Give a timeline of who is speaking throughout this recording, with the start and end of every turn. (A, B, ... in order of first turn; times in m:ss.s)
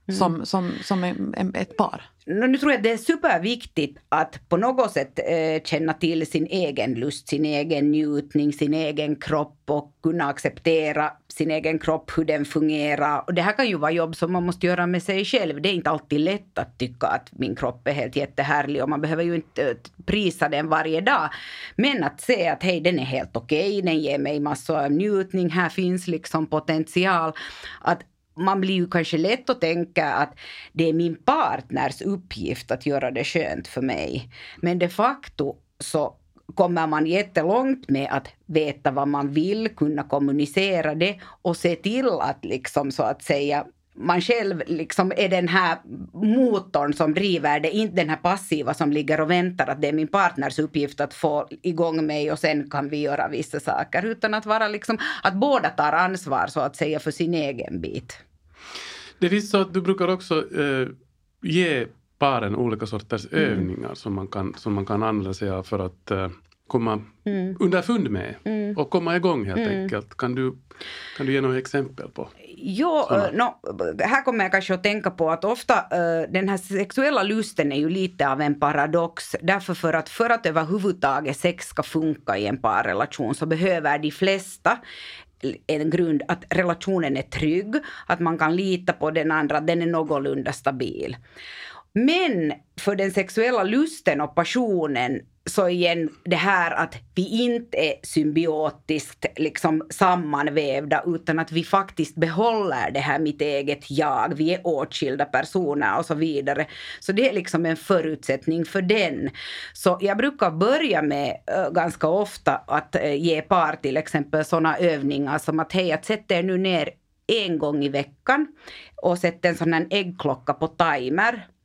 0:00.1-0:02.1 A
0:02.3-0:58.2 B
0:59.2-1:10.6 C
1:07.3-1:07.6 B
1:08.5-1:08.7 B
1:09.6-1:09.9 B
1:11.2-1:12.3 C
1:12.5-1:24.8 B
1:25.4-1:31.2 B
1:32.0-1:58.5 B
1:59.0-2:01.5 B